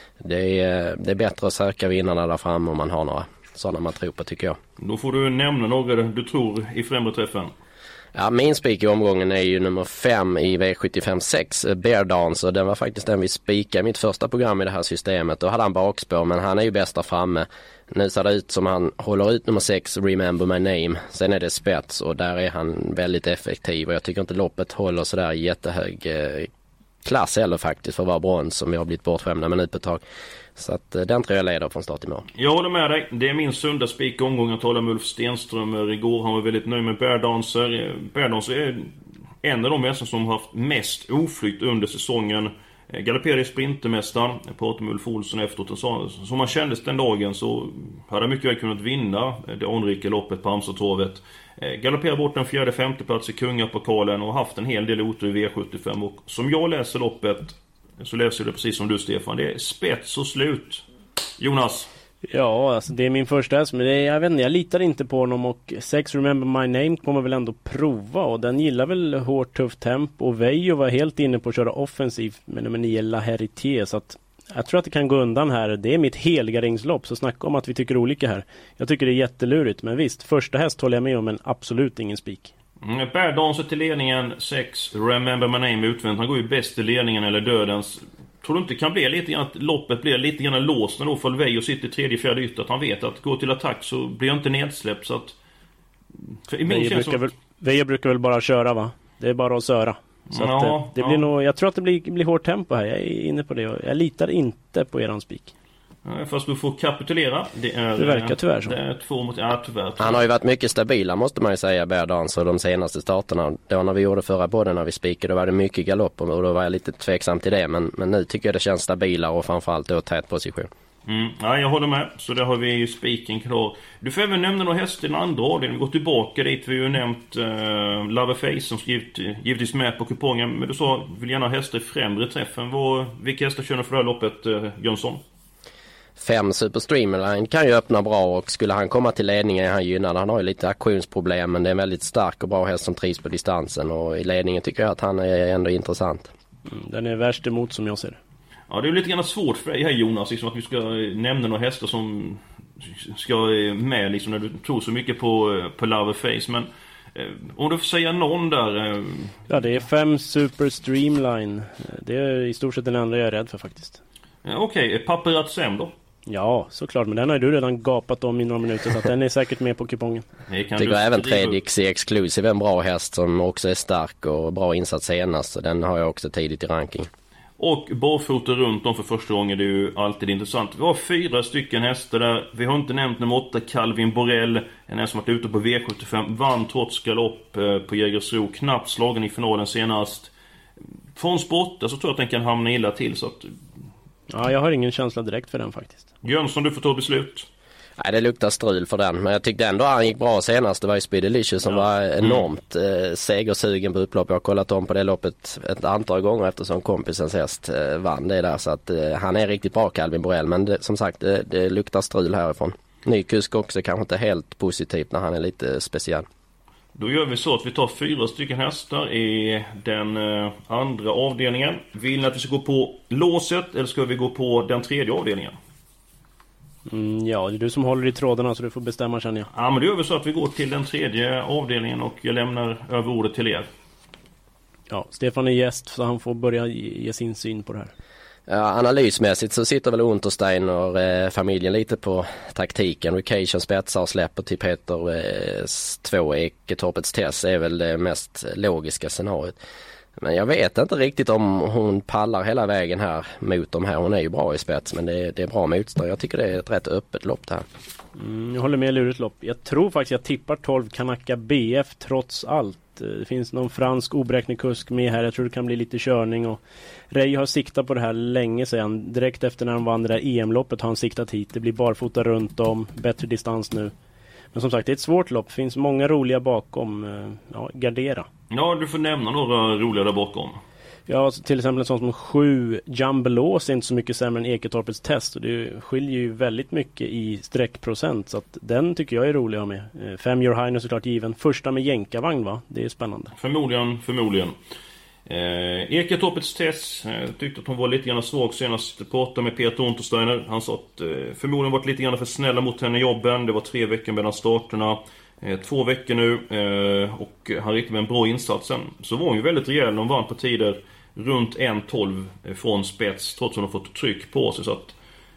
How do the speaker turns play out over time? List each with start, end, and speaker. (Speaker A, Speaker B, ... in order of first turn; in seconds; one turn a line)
Speaker A: 0.2-4.6
Speaker B: 4.8-7.5
Speaker A: 8.1-26.5
Speaker A: 27.0-30.0
Speaker A: 30.6-32.2
Speaker B: 32.4-60.8
Speaker B: 61.4-61.9
Speaker C: 62.3-82.5
Speaker B: 82.8-95.3
Speaker B: 96.5-97.3
Speaker C: 96.7-105.5
Speaker B: 100.3-101.2
Speaker B: 106.0-110.2
Speaker C: 108.0-108.7
Speaker A: 110.0-120.7
Speaker B: 121.0-135.2
Speaker A: 136.2-146.3
Speaker C: 146.7-148.2
Speaker B: 148.7-159.4
Speaker C: 159.5-164.0
Speaker B: 164.4-165.9
Speaker C: 166.3-170.2
Speaker B: 170.5-171.6
Speaker A: 170.8-177.1
Speaker B: 177.6-190.3
Speaker B: 191.2-193.5
Speaker C: 194.3-196.1
Speaker B: 196.2-197.5
Speaker A: 198.0-216.3
Speaker B: 216.9-225.6
Speaker C: 226.9-229.5
Speaker B: 229.5-233.7
Speaker C: 234.9-237.9
Speaker A: 238.5-249.6
Speaker A: 250.2-257.6
Speaker C: 258.1-266.6
Speaker C: 267.1-273.9
Speaker C: 274.5-278.3
Speaker B: 278.5-280.6
Speaker C: 281.1-293.3
Speaker B: 293.4-294.5
Speaker B: 295.3-314.9